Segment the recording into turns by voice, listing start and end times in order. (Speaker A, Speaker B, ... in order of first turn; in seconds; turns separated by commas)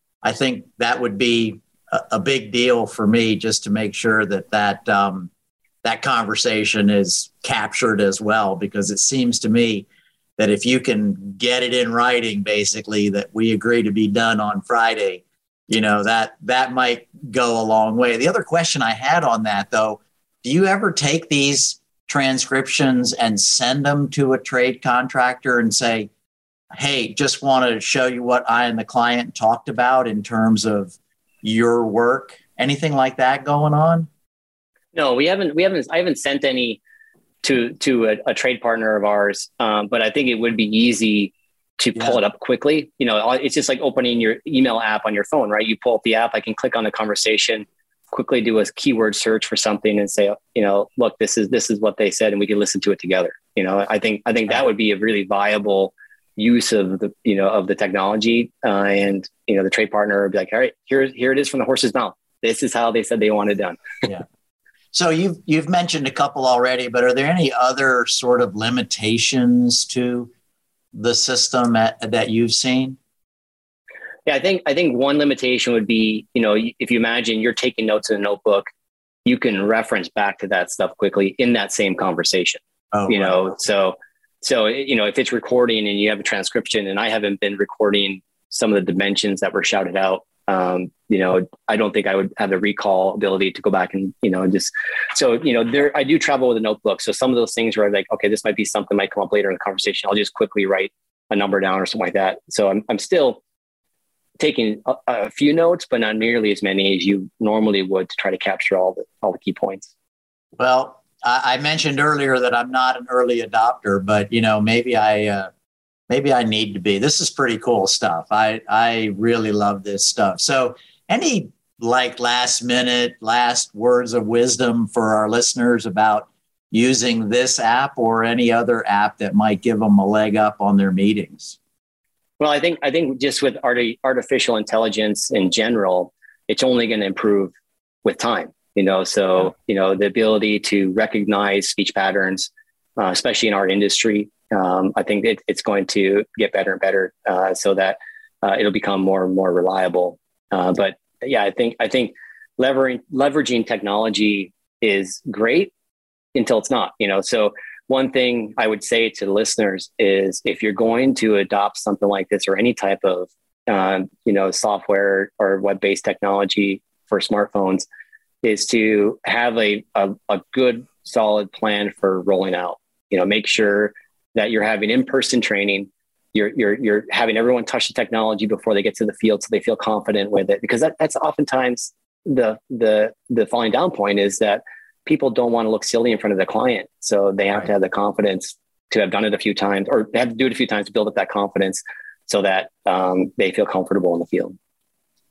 Speaker A: 0.2-5.3, Speaker A: 5.8-9.8, Speaker A: 10.4-26.1, Speaker A: 26.7-34.1, Speaker B: 34.9-36.8, Speaker B: 37.4-63.8, Speaker A: 64.9-70.3, Speaker A: 70.9-73.0, Speaker B: 74.2-78.7, Speaker B: 79.2-103.4, Speaker A: 82.9-83.4, Speaker B: 104.4-109.9, Speaker A: 110.6-115.5, Speaker A: 116.1-131.6, Speaker B: 132.4-155.7, Speaker B: 156.3-167.8, Speaker B: 168.4-194.6